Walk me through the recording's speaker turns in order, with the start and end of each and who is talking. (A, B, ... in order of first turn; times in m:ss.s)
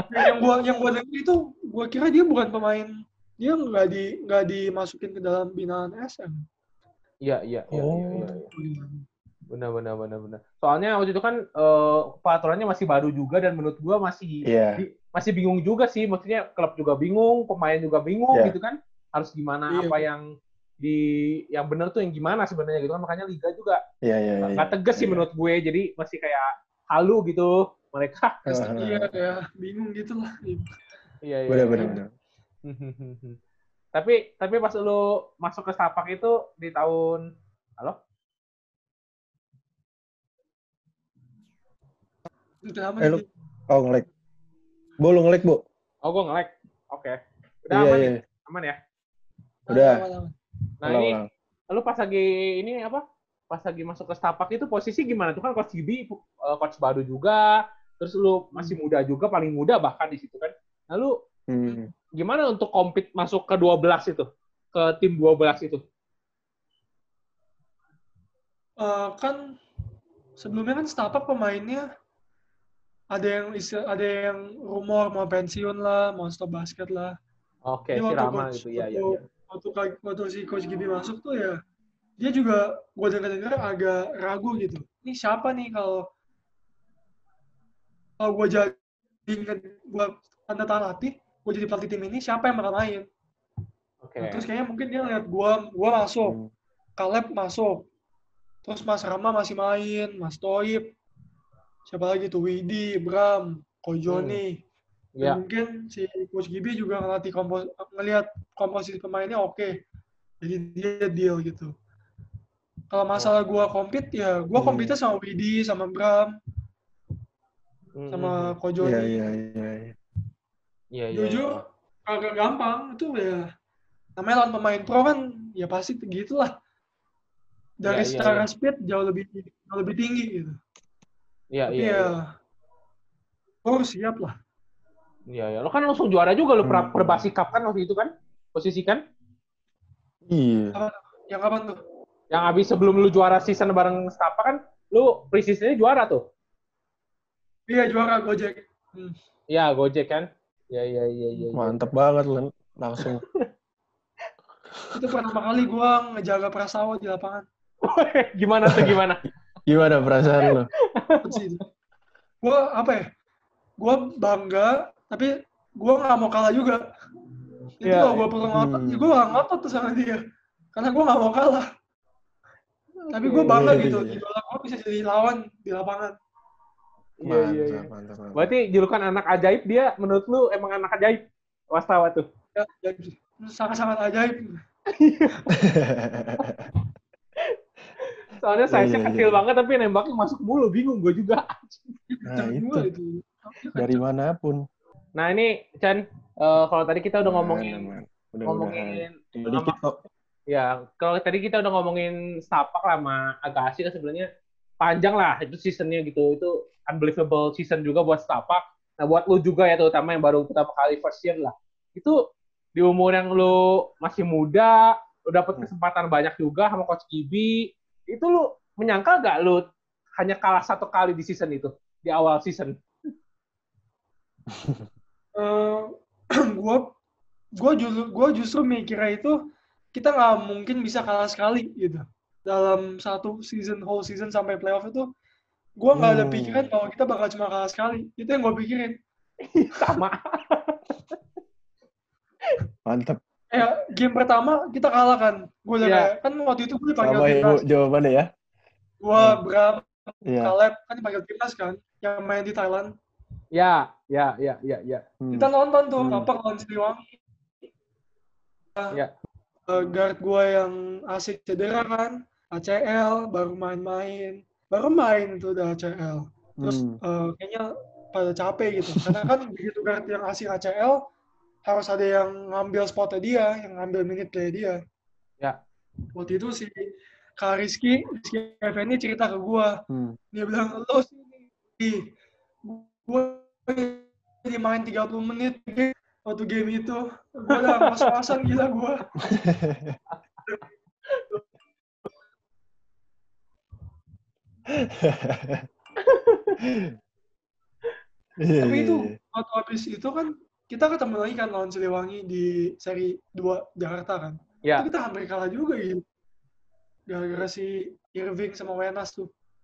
0:00.1-0:06.4 A
0:07.2-0:08.4 B
0:07.7-0:08.2 C
0:08.5-0:09.0 A
0:09.5-0:20.2 B
0:14.4-0:14.8 C
0:19.7-0:20.0 A
0:20.8-0:23.8 B
0:24.0-0:25.2 C
0:24.4-0:28.7 B
0:28.5-0:29.1 C
0:28.8-0:30.7 A
0:31.2-0:31.9 B
0:31.5-0:32.1 C
0:32.6-0:33.4 B
0:33.9-0:37.2 B
0:42.6-0:43.3 A
0:43.0-0:44.1 C
0:45.0-0:45.6 C
0:46.0-0:48.8 B
0:47.7-0:48.2 C
0:49.7-0:50.3 A
0:49.7-0:50.0 C
0:50.8-0:51.2 B
0:50.8-0:51.3 C
0:51.7-1:01.1 B
1:01.5-1:01.9 C
1:02.2-1:05.8 B
1:08.8-1:09.4 A
1:10.4-1:11.8 A
1:13.1-1:17.1 A
1:17.6-1:19.2 B
1:17.9-1:21.6 A
1:22.2-1:26.0 A
1:28.2-1:28.7 A
1:29.3-1:33.0 A
1:34.0-1:34.4 B
1:34.2-1:36.4 A
1:36.2-1:36.5 C
1:37.0-1:37.8 A
1:38.6-1:40.9 A
1:41.9-1:44.5 A
1:44.1-1:44.4 B
1:45.2-1:49.7 A
1:50.4-1:51.7 A
1:52.9-1:56.4 A
1:54.6-1:54.9 C
1:58.0-1:58.5 B
1:58.1-1:59.2 A
1:58.8-1:59.9 C
2:00.9-2:01.6 B
2:01.1-2:03.4 A
2:04.2-2:06.5 A
2:07.8-2:10.6 A
2:07.8-2:08.4 B
2:11.5-2:12.1 B
2:11.7-2:12.2 A
2:13.6-2:14.3 A
2:15.3-2:19.0 B
2:16.6-2:17.3 C
2:20.3-2:20.8 C
2:20.7-2:21.8 A
2:22.3-2:26.2 B
2:27.7-2:29.1 A
2:29.5-2:31.9 B
2:31.5-2:33.2 C
2:33.0-2:33.5 B
2:34.9-2:37.4 A
2:37.8-2:39.2 B
2:39.7-2:40.7 C
2:41.0-2:41.4 B
2:41.2-2:41.6 A
2:42.4-2:43.0 A
2:43.8-2:46.8 A
2:47.8-2:50.2 A
2:47.8-2:48.3 B
2:48.5-2:49.1 C
2:50.7-2:51.6 A
2:53.0-2:53.8 B
2:53.1-2:56.1 A
2:53.5-2:54.2 C
2:57.2-3:02.2 B
2:57.2-2:58.5 C
3:02.6-3:04.6 A
3:04.9-3:05.4 B
3:05.6-3:06.7 C
3:08.4-3:11.9 B
3:08.7-3:09.4 C
3:12.1-3:14.0 A
3:12.3-3:12.9 C
3:13.7-3:14.6 C
3:15.2-3:17.9 B
3:17.2-3:20.0 C
3:18.5-3:19.8 B
3:20.5-3:24.3 B
3:24.8-3:32.2 B
3:32.8-3:39.6 B
3:40.2-3:42.8 B
3:44.5-3:44.8 C
3:45.4-3:45.9 A
3:46.5-3:46.9 A
3:47.6-3:49.4 A
3:49.9-3:55.1 A
3:55.8-3:59.0 A
3:55.9-3:56.7 C
3:59.5-4:00.8 B
4:02.8-4:03.2 C
4:03.5-4:07.6 A
4:05.8-4:06.1 B
4:07.0-4:08.3 C
4:09.0-4:12.9 A
4:10.3-4:10.5 C
4:13.5-4:15.0 B
4:15.2-4:16.3 C
4:15.3-4:17.0 A
4:19.7-4:31.0 A
4:26.6-4:27.0 C
4:28.9-4:29.3 C
4:31.6-4:34.8 A
4:36.1-4:36.8 A
4:37.4-4:39.7 A
4:39.9-4:40.2 C
4:40.3-4:42.0 A
4:42.6-4:49.1 A
4:47.6-4:48.0 B
4:49.3-4:50.0 C
4:54.7-4:55.6 C
4:56.0-4:56.6 B
4:56.6-4:56.9 C
4:58.4-4:59.1 C
4:58.6-5:06.0 A
5:07.1-5:09.3 A